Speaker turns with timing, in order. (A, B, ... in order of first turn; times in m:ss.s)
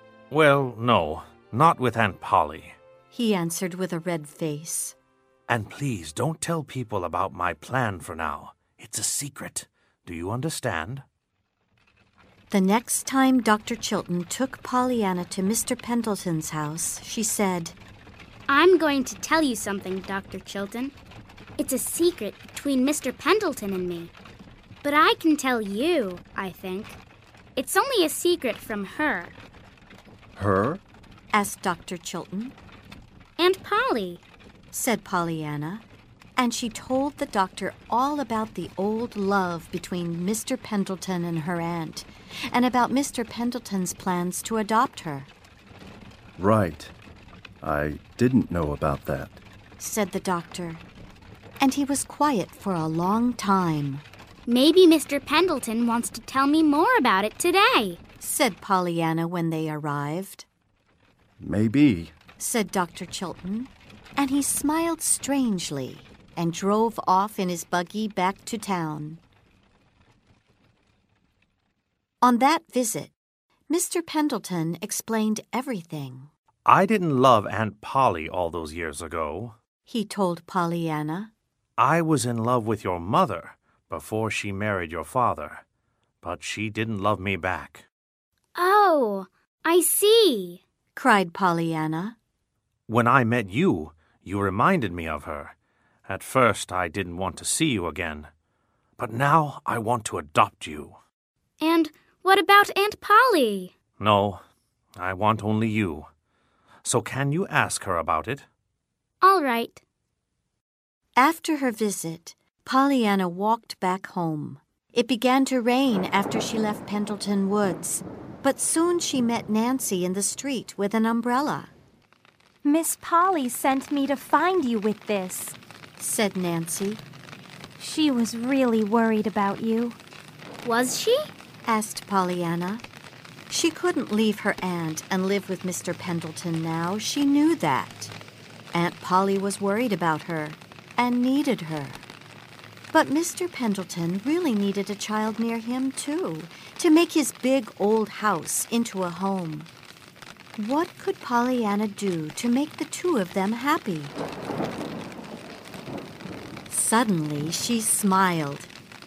0:00.3-0:02.8 A
0:03.1-0:05.0 B
0:05.5-0:11.0 A
0:12.5-0:17.8 B
0:18.5-0:20.9 C
0:21.6-0:24.1 C
0:24.8-0:27.0 C
0:27.6-0:29.4 C
0:30.4-0:30.8 D
0:31.3-0:32.6 B
0:33.4-0:34.2 C
0:34.7-0:35.8 B
0:36.4-0:45.3 B
0:46.4-0:46.9 D
0:47.6-0:49.4 D
0:49.8-0:50.8 B
0:51.6-0:54.0 B
0:54.5-0:58.0 C
0:58.2-1:00.4 B
1:01.4-1:02.1 D
1:02.4-1:09.2 B
1:12.2-1:13.1 B
1:13.7-1:16.3 B
1:16.6-1:19.6 A
1:19.9-1:21.3 B
1:21.8-1:25.6 A
1:26.2-1:27.8 A
1:28.6-1:30.6 C
1:30.9-1:32.2 B
1:32.9-1:35.6 A
1:36.1-1:38.3 A
1:39.0-1:41.0 A
1:41.6-1:43.7 C
1:44.0-1:44.4 A
1:45.0-1:46.1 A
1:46.8-1:48.4 A
1:49.2-1:49.8 C
1:51.2-2:01.7 B
2:02.6-2:05.6 E
2:06.0-2:07.0 B
2:07.8-2:10.0 E
2:10.6-2:11.3 C
2:11.6-2:12.8 B
2:13.5-2:18.1 B
2:18.7-2:22.0 B
2:22.9-2:29.7 B
2:30.6-2:34.2 B
2:36.7-2:38.7 B